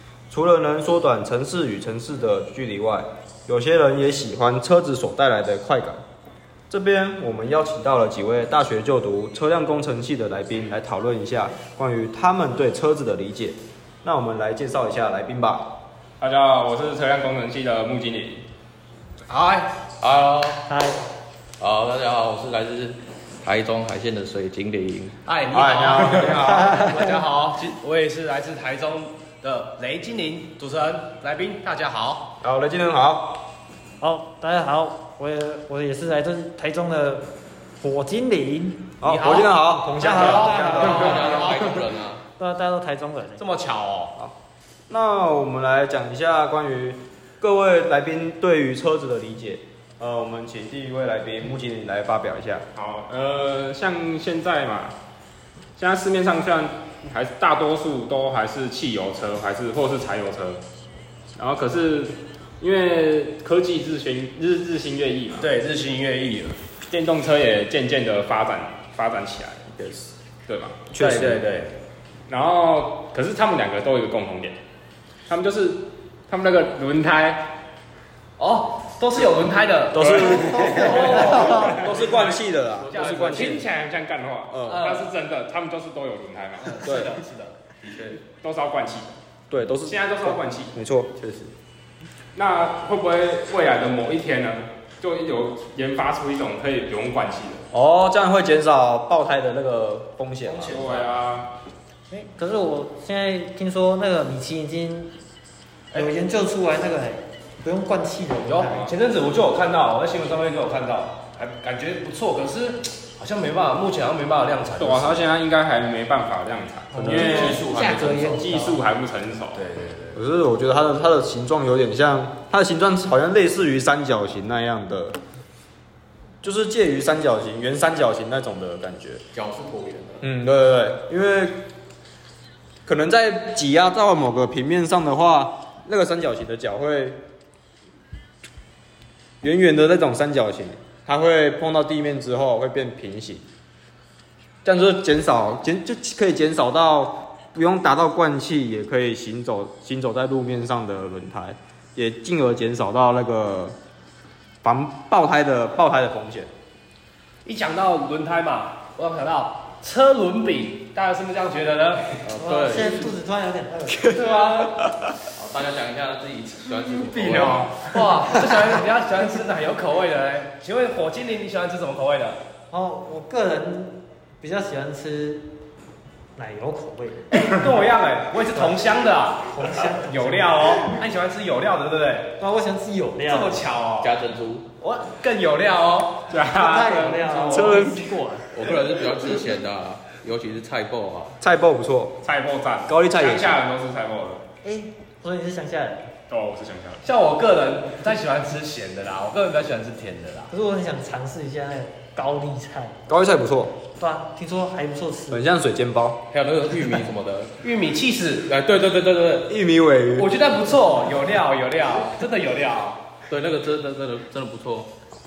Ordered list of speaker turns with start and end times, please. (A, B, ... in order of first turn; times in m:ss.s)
0:00.3-0:06.0 A
0:06.7-0:15.7 A
0:16.2-0:18.4 B
0:19.3-0:19.7 C
0:20.0-0:20.6 D
0:20.7-0:21.1 E
0:21.6-0:25.1 D
0:25.2-0:32.3 C
0:25.5-0:27.0 A
0:26.4-0:27.2 E
0:32.4-0:33.4 A
0:34.0-0:37.3 E
0:37.8-0:38.9 E
0:39.0-0:41.3 A
0:39.0-0:41.5 C
0:40.0-0:41.8 E
0:40.7-0:42.2 D
0:42.4-0:43.4 E
0:43.4-0:44.1 C
0:44.9-0:52.6 A
0:52.7-0:55.0 B
0:55.8-1:00.6 B
1:01.4-1:05.5 B
1:05.4-1:06.6 C
1:06.9-1:09.7 B
1:09.7-1:10.1 A
1:10.5-1:10.8 B
1:10.9-1:11.4 A
1:11.0-1:11.7 C
1:12.3-1:14.6 B
1:15.3-1:17.5 B
1:18.4-1:23.6 C
1:19.9-1:23.7 A
1:20.0-1:20.4 B
1:20.1-1:21.8 E
1:21.0-1:21.9 B
1:23.0-1:23.3 D
1:23.2-1:26.8 B
1:24.5-1:24.9 A
1:24.6-1:25.0 C
1:26.6-1:27.5 C
1:26.8-1:27.2 A
1:28.2-1:29.2 B
1:29.5-1:31.5 A
1:29.8-1:30.7 B
1:32.3-1:37.6 B
1:37.7-1:40.8 A
1:40.4-1:41.1 C
1:40.7-1:41.5 B
1:42.1-1:45.1 E
1:45.9-1:48.9 E
1:48.4-1:55.2 C
1:54.8-1:59.6 B
1:56.9-1:58.9 E
1:57.0-1:57.6 A
1:57.1-1:58.2 C
1:59.5-2:00.2 C
2:00.1-2:05.2 A
2:06.4-2:09.2 A
2:09.3-2:10.2 D
2:10.2-2:11.6 A
2:12.8-2:17.2 A
2:19.4-2:23.4 A
2:24.6-2:33.8 A
2:34.6-2:36.5 A
2:37.4-2:42.3 C
2:42.2-2:43.1 D
2:42.4-2:44.4 E
2:44.0-2:45.0 A
2:44.1-2:44.8 C
2:45.3-2:47.7 D
2:46.9-2:48.1 B
2:47.7-2:52.4 C
2:52.7-2:55.5 E
2:56.4-2:57.2 E
2:57.3-3:02.3 C
2:58.5-2:58.9 E
2:59.4-3:00.8 E
3:02.4-3:03.7 E
3:03.2-3:04.1 C
3:04.0-3:04.6 D
3:04.8-3:06.3 C
3:06.3-3:07.3 B
3:06.5-3:08.5 E
3:07.3-3:07.9 C
3:07.4-3:08.0 A
3:08.5-3:11.4 D
3:11.4-3:12.2 A
3:12.2-3:14.4 B
3:12.9-3:13.6 A
3:14.6-3:16.1 E
3:16.3-3:17.0 B
3:17.0-3:20.5 C
3:20.5-3:23.0 E
3:23.1-3:23.7 A
3:24.0-3:25.4 E
3:25.3-3:26.2 A
3:26.3-3:27.5 D
3:27.6-3:28.5 C
3:28.5-3:29.5 D
3:29.5-3:30.3 A
3:30.2-3:33.0 C
3:33.3-3:34.9 D